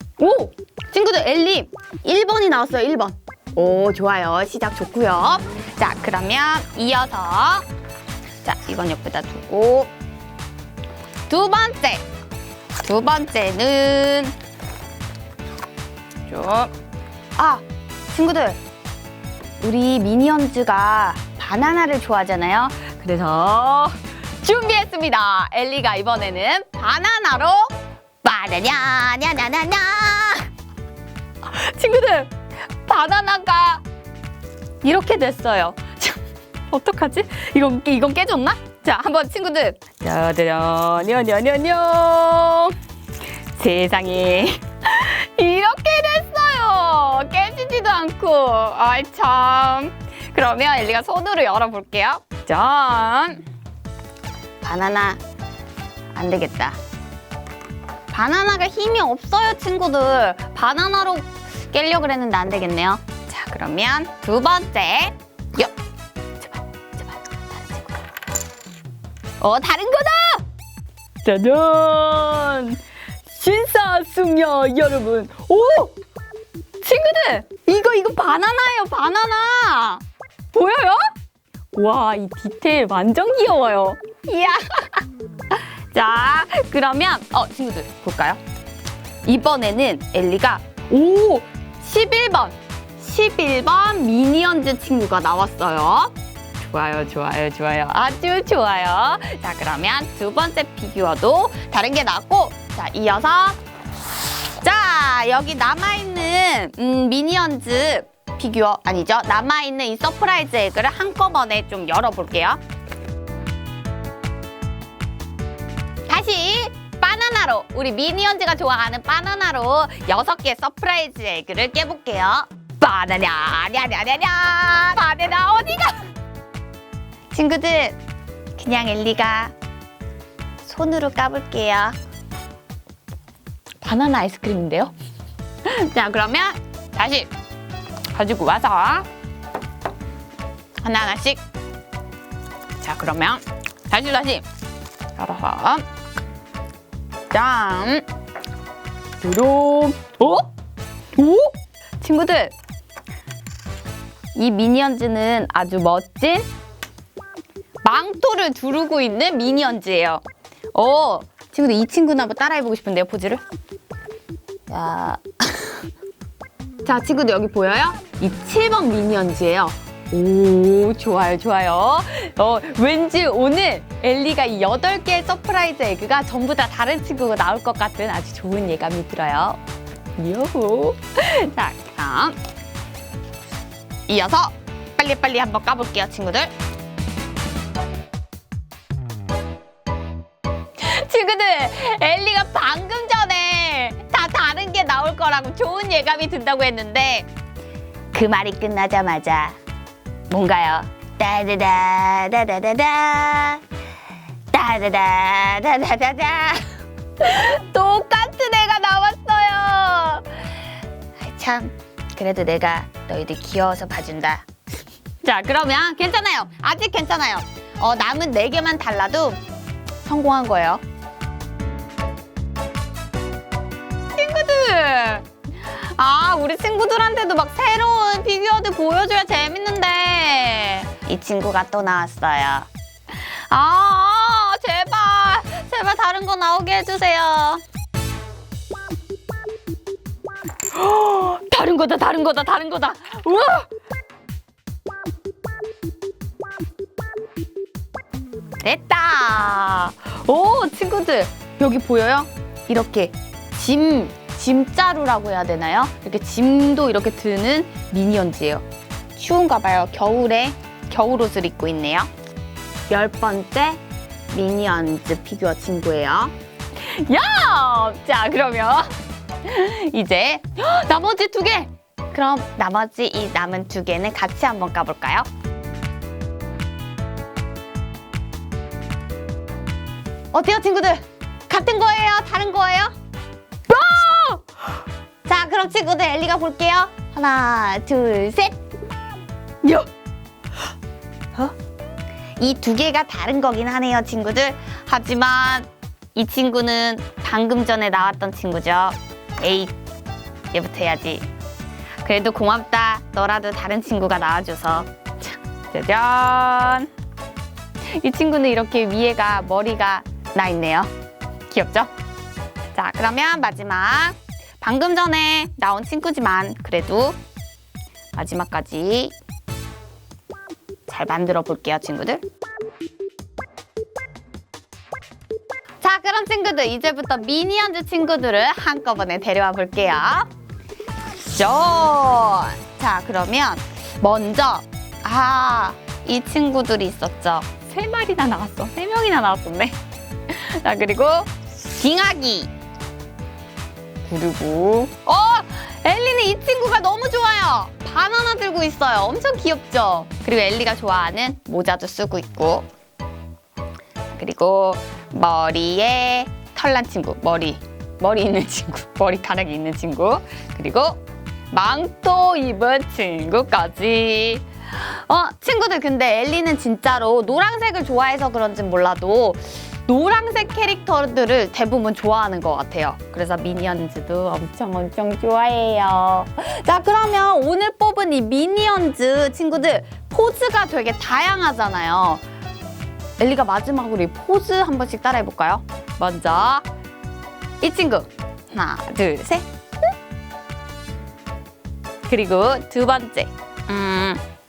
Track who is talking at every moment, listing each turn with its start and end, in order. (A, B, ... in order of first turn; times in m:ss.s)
0:00.2-0:07.6 A
0:08.4-0:09.9 A
0:11.3-0:12.0 A
0:12.8-0:14.4 A
0:16.3-0:16.7 A
0:17.4-0:18.6 A
0:19.6-0:30.5 A
0:31.4-0:32.3 A
0:32.8-0:33.8 A
0:34.8-0:42.8 A
0:43.5-0:53.4 A
0:54.6-0:55.2 A
0:56.1-0:56.8 A
0:58.1-1:05.7 A
1:06.4-1:08.0 A
1:09.4-1:10.4 A
1:11.2-1:15.9 A
1:16.8-1:21.1 A
1:21.7-1:25.0 A
1:25.5-1:28.4 A
1:29.2-1:43.6 A
1:44.5-1:52.6 A
1:56.1-2:06.0 A
2:07.3-2:08.0 A
2:08.6-2:09.5 A
2:10.6-2:12.0 A
2:13.8-2:14.9 A
2:15.6-2:17.3 A
2:18.1-2:19.1 A
2:20.8-2:21.4 A
2:22.8-2:24.4 A
2:25.2-2:25.8 A
2:27.3-2:28.0 A
2:29.2-2:30.5 A
2:31.2-2:32.5 A
2:34.4-2:36.5 A
2:37.8-2:40.2 A
2:40.7-2:43.4 A
2:44.7-2:45.8 A
2:46.8-2:59.6 A
3:00.2-3:02.4 A
3:04.1-3:06.5 A
3:10.8-3:17.3 A
3:18.1-3:19.6 A
3:20.3-3:23.6 A
3:24.5-3:26.7 A
3:27.2-3:30.5 A
3:31.2-3:34.4 A
3:35.2-3:39.4 A
3:40.0-3:40.8 A
3:44.2-3:57.6 A
4:00.7-4:03.7 A
4:08.6-4:18.6 A
4:19.2-4:22.1 A
4:22.9-4:28.9 A
4:29.4-4:35.3 A
4:40.3-4:43.0 A
4:43.7-4:44.4 A
4:45.3-4:48.6 A
4:49.6-4:49.9 A
4:52.4-4:59.8 A
5:00.5-5:01.3 A
5:02.0-5:06.9 A
5:07.8-5:10.9 A
5:11.5-5:11.9 A
5:12.7-5:17.2 A
5:18.1-5:19.1 A
5:20.9-5:22.2 A
5:25.8-5:30.3 A
5:31.3-5:39.8 A
5:40.3-5:42.5 A
5:44.0-5:52.7 A
5:54.1-6:22.2 A
6:23.2-6:26.6 A
6:27.6-6:29.5 A
6:32.1-6:34.2 A